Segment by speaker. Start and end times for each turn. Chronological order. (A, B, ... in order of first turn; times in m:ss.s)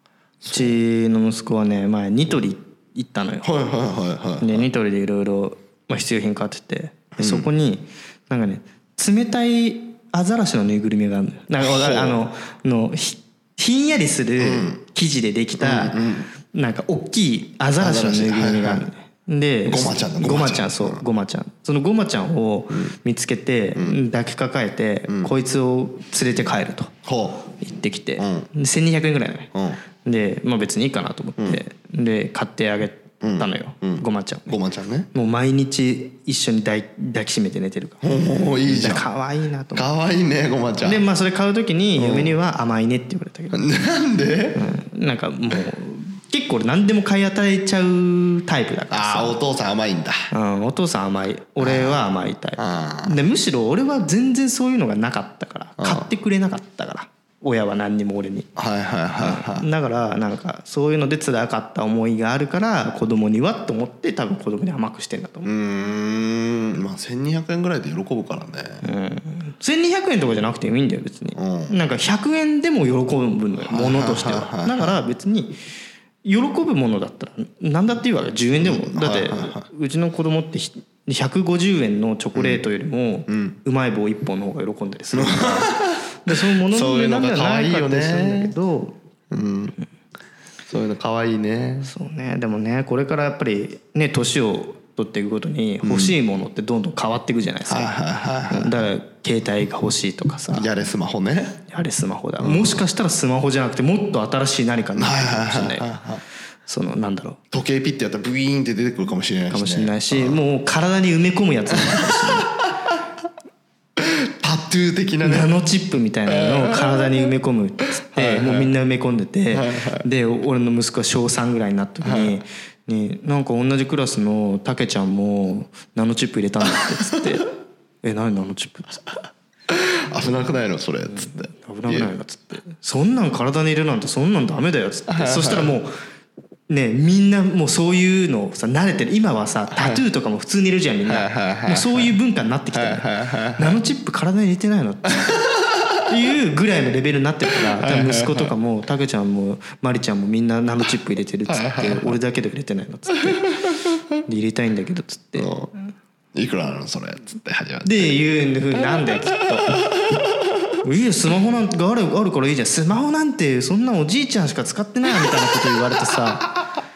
0:00.4-0:00.8 A
0:00.4-0:03.5 B
0:03.4-0:04.7 A
0:04.4-0:26.9 B
0:07.2-0:07.5 A
0:11.6-0:12.2 A
0:14.4-0:14.8 A
0:15.6-0:16.3 A
0:17.8-0:18.9 A
0:19.7-0:21.0 A
0:23.7-0:24.0 A
0:25.1-0:25.3 A
0:27.0-0:27.5 A
0:27.6-0:29.5 B
0:28.2-0:28.5 A
0:29.5-0:29.8 A
0:30.0-0:34.6 B
0:33.2-0:35.1 A
0:35.1-0:38.1 B
0:38.0-0:39.0 A
0:38.6-0:39.9 B
0:39.7-0:41.0 A
0:40.8-0:43.7 B
0:42.0-0:42.4 A
0:43.5-0:44.6 A
0:44.5-0:49.4 B
0:48.9-0:50.2 A
0:50.3-0:58.5 B
0:51.6-0:52.0 A
0:52.6-0:53.2 A
0:55.8-0:56.1 A
0:58.6-0:59.7 A
0:59.2-1:05.5 B
1:05.4-1:08.8 A
1:08.8-1:15.6 B
1:11.4-1:11.8 A
1:13.6-1:15.0 A
1:16.2-1:29.0 B
1:18.6-1:19.7 A
1:22.3-1:22.6 A
1:23.3-1:23.6 A
1:25.1-1:28.5 A
1:29.3-1:29.7 A
1:30.7-1:31.9 A
1:31.8-1:37.9 B
1:35.8-1:36.2 A
1:37.7-1:38.9 A
1:38.5-1:40.7 B
1:40.5-1:41.6 A
1:41.7-1:46.0 B
1:42.4-1:42.8 A
1:45.0-1:46.2 A
1:46.6-1:47.4 B
1:47.5-1:50.4 A
1:49.5-1:52.5 B
1:51.7-1:53.0 A
1:54.0-1:55.5 A
1:55.2-2:07.5 B
1:56.3-1:57.3 A
1:58.1-1:58.7 A
1:59.5-2:00.0 A
2:02.0-2:02.4 A
2:08.0-2:09.1 B
2:09.7-2:12.1 A
2:11.1-2:15.9 B
2:15.1-2:15.7 A
2:16.7-2:25.5 B
2:19.7-2:20.0 A
2:21.0-2:22.1 A
2:22.7-2:23.8 A
2:25.2-2:26.1 A
2:26.0-2:33.7 B
2:27.5-2:28.5 A
2:31.5-2:32.2 A
2:33.6-2:34.0 A
2:34.2-2:35.5 B
2:35.4-2:35.7 A
2:36.3-2:40.8 A
2:37.8-2:39.8 B
2:40.8-2:46.5 B